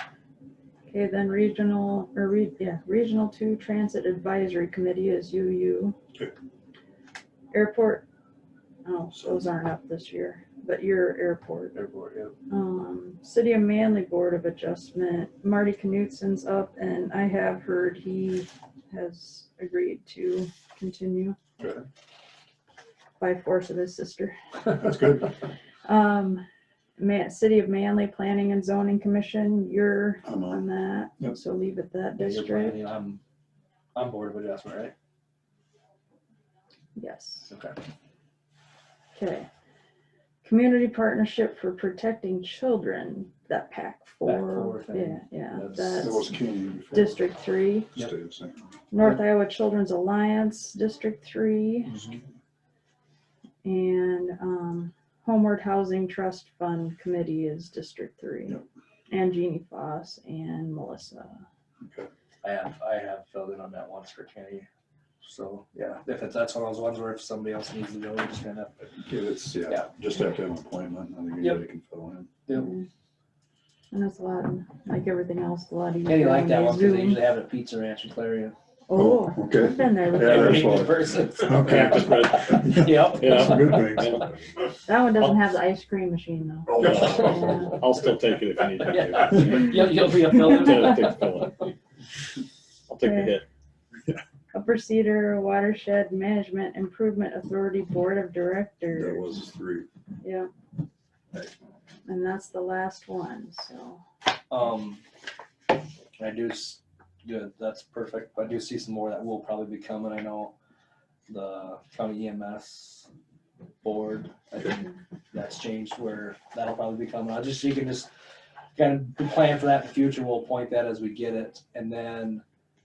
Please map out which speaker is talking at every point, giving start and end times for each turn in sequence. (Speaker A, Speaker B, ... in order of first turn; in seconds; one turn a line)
Speaker A: 0.9-6.0
Speaker A: 7.5-8.1
Speaker A: 8.8-11.8
Speaker B: 9.1-9.4
Speaker C: 11.7-12.3
Speaker A: 12.5-21.4
Speaker B: 21.6-21.8
Speaker A: 23.2-24.4
Speaker B: 24.8-25.4
Speaker A: 25.9-26.4
Speaker A: 27.0-32.8
Speaker B: 30.2-30.6
Speaker C: 32.2-33.2
Speaker C: 34.0-34.9
Speaker A: 37.0-37.5
Speaker C: 37.5-37.8
Speaker A: 39.1-39.5
Speaker A: 40.4-46.4
Speaker C: 44.2-46.2
Speaker B: 46.0-47.3
Speaker A: 46.9-47.9
Speaker B: 47.9-48.6
Speaker A: 48.9-51.9
Speaker B: 51.9-52.2
Speaker A: 53.6-61.4
Speaker B: 61.8-62.1
Speaker C: 62.4-64.7
Speaker C: 65.2-69.0
Speaker B: 69.0-72.3
Speaker A: 72.5-72.9
Speaker A: 73.9-77.2
Speaker C: 76.1-78.6
Speaker A: 78.9-80.9
Speaker B: 79.0-84.3
Speaker C: 80.2-83.9
Speaker D: 80.2-80.7
Speaker D: 81.6-84.7
Speaker A: 84.8-87.8
Speaker B: 86.7-87.7
Speaker D: 86.8-91.7
Speaker C: 86.9-87.4
Speaker C: 88.8-91.2
Speaker A: 90.3-90.7
Speaker D: 92.9-93.5
Speaker A: 93.0-93.3
Speaker A: 94.5-99.2
Speaker B: 98.9-99.9
Speaker A: 100.2-100.5
Speaker A: 102.1-104.0
Speaker C: 104.5-105.0
Speaker C: 106.2-110.5
Speaker C: 111.3-113.1
Speaker C: 113.8-114.8
Speaker C: 115.3-118.1
Speaker C: 118.8-122.4